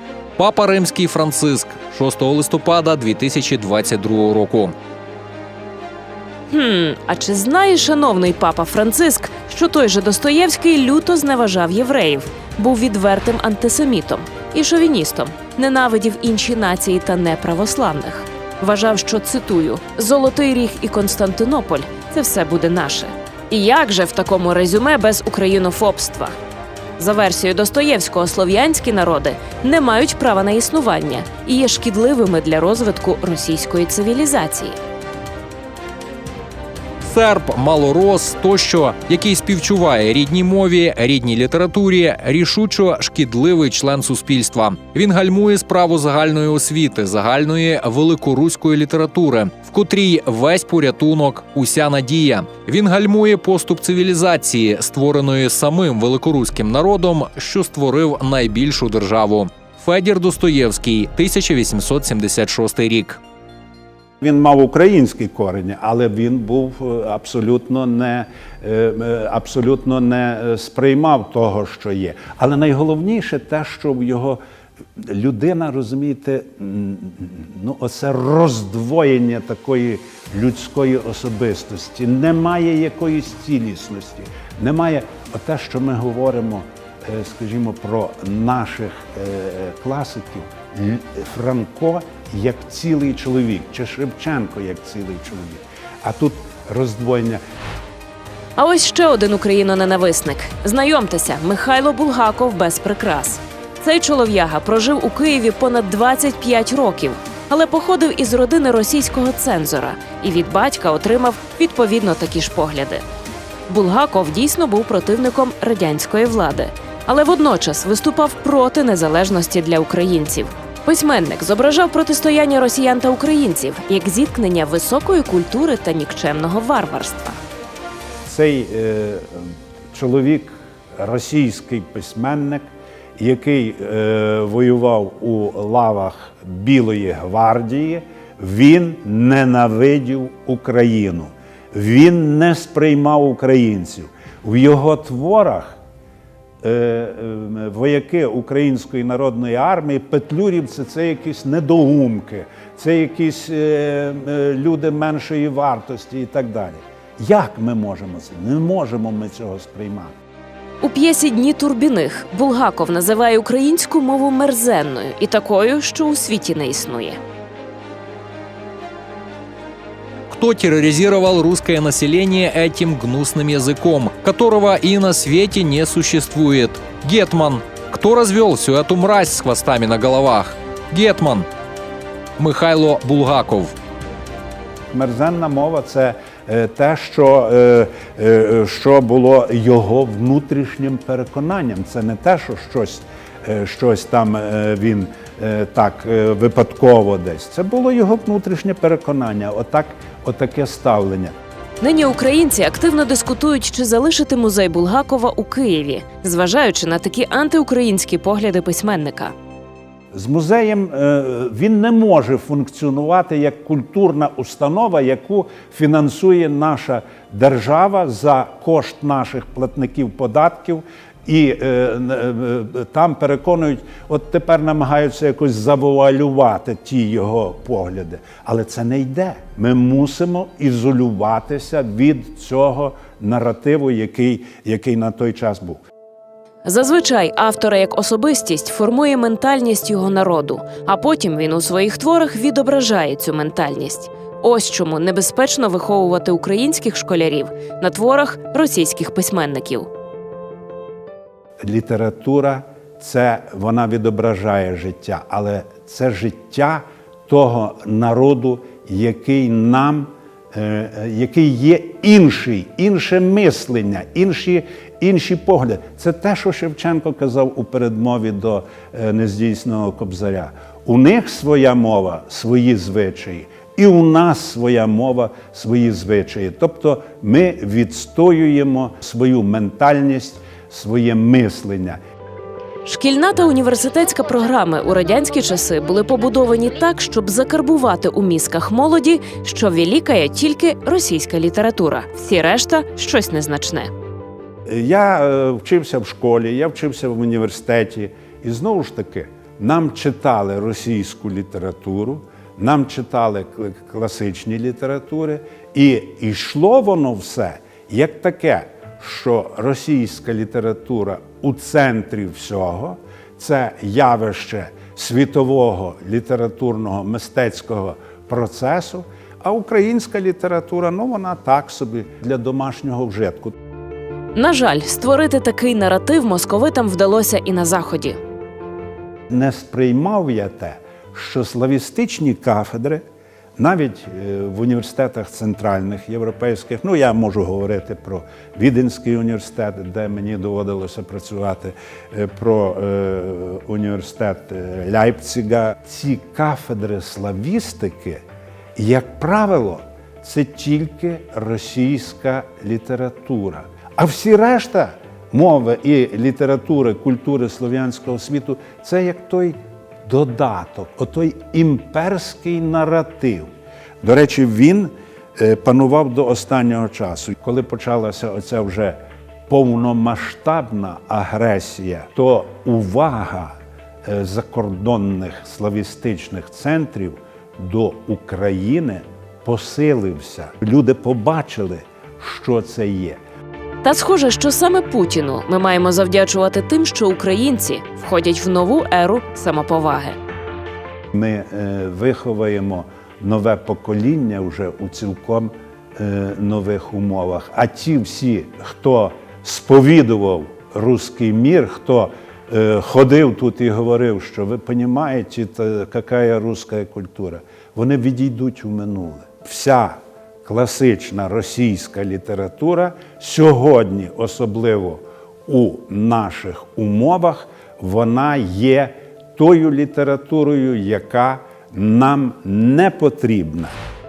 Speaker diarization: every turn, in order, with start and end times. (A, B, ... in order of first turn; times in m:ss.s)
0:00.4-0:04.7 A
0:06.5-0:26.3 B
0:27.0-0:34.8 B
0:37.0-1:03.2 A
1:04.2-1:14.4 C
1:15.0-1:37.4 C
1:38.6-1:53.0 B
1:53.7-2:07.4 B
2:08.2-2:25.8 C
2:26.6-2:40.1 C
2:40.8-2:47.2 B
2:50.3-3:01.4 A
3:02.4-3:03.7 A
3:04.9-3:21.3 C
3:21.8-3:29.3 B
3:30.1-3:55.8 C
3:56.6-4:09.9 B
4:11.6-4:42.0 C
4:42.8-4:53.9 B
4:54.6-5:23.5 C
5:24.3-5:28.2 B
5:29.3-5:33.0 C
5:33.6-5:48.2 C
5:48.8-6:03.5 C
6:04.0-6:23.2 C
6:23.8-6:30.2 B
6:31.1-7:03.7 C